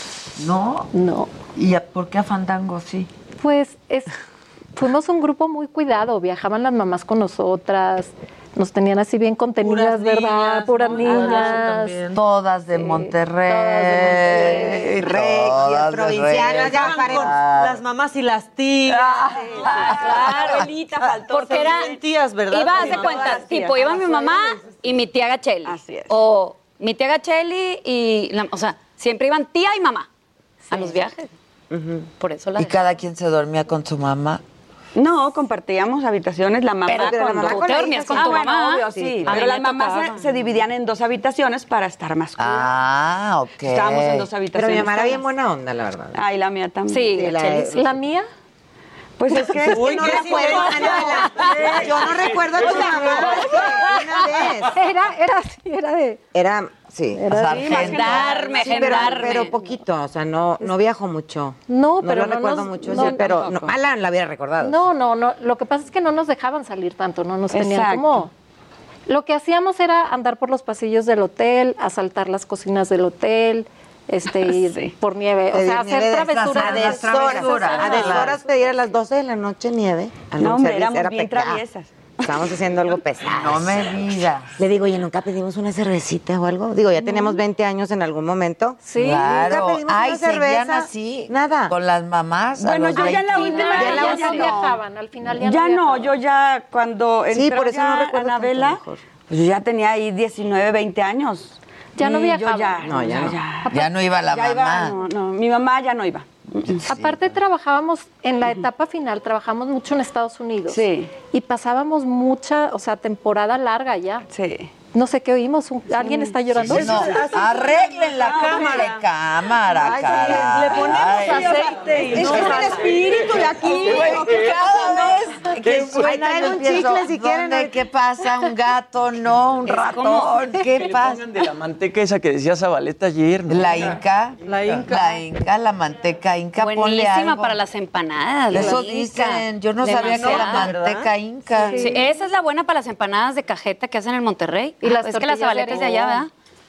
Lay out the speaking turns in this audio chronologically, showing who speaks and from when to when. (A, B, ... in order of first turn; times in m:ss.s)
0:00.4-0:00.9 A
0:00.9-0:01.3 B
0:01.5-0:03.1 A
0:03.4-0:04.1 B
0:04.8-0:12.0 B
0:09.6-0:12.2 C
0:12.1-0:17.8 A
0:13.7-0:14.1 B
0:14.1-0:14.8 C
0:15.0-0:17.3 D
0:16.4-0:19.7 C
0:18.9-0:20.6 A
0:19.4-0:22.0 E
0:19.6-0:30.1 F
0:21.3-0:23.4 C
0:22.8-0:24.4 E
0:25.6-0:26.2 E
0:30.7-0:31.3 F
0:31.7-0:32.1 D
0:32.2-0:32.8 F
0:32.6-0:34.4 A
0:35.0-0:42.7 E
0:36.9-0:39.4 D
0:36.9-0:40.2 F
0:42.4-0:44.3 A
0:43.6-0:45.2 E
0:44.5-0:46.2 D
0:46.1-0:47.2 E
0:46.9-0:47.5 F
0:47.1-0:48.3 B
0:47.1-0:48.0 D
0:49.2-0:51.1 E
0:49.4-0:54.8 D
0:49.6-0:51.5 C
0:54.7-0:56.2 B
0:56.3-0:57.3 D
0:57.1-0:58.1 B
0:57.3-0:58.3 A
0:57.5-0:59.4 E
0:57.7-0:59.6 F
0:58.6-1:04.8 D
0:58.6-0:59.1 B
1:01.7-1:03.7 B
1:03.0-1:03.6 E
1:04.6-1:08.3 B
1:07.5-1:08.3 E
1:09.1-1:18.4 B
1:14.3-1:15.0 E
1:15.5-1:21.6 D
1:16.2-1:18.4 A
1:20.3-1:22.6 E
1:22.2-1:23.9 D
1:23.3-1:24.5 A
1:24.6-1:31.7 D
1:28.8-1:29.4 B
1:29.0-1:33.6 A
1:32.6-1:34.8 E
1:33.3-1:36.1 B
1:33.3-1:34.4 F
1:33.7-1:34.6 D
1:35.3-1:46.9 E
1:37.3-1:39.0 D
1:42.0-1:43.0 B
1:42.8-1:43.4 D
1:43.7-1:45.0 A
1:46.8-1:47.4 A
1:46.9-1:54.2 B
1:50.7-1:51.1 E
1:54.3-1:54.7 E
1:54.9-1:57.2 B
1:56.0-1:56.4 E
1:56.6-2:02.9 A
1:56.7-1:59.0 C
1:58.3-1:58.8 E
1:59.7-2:04.1 C
2:02.2-2:04.6 E
2:02.2-2:03.7 D
2:03.8-2:11.2 A
2:05.7-2:07.8 D
2:09.7-2:10.5 F
2:10.6-2:14.0 G
2:13.5-2:17.6 A
2:14.4-2:15.2 C
2:16.6-2:20.8 F
2:18.5-2:21.9 A
2:20.1-2:21.1 C
2:21.5-2:22.1 B
2:21.7-2:26.3 F
2:24.8-2:26.3 B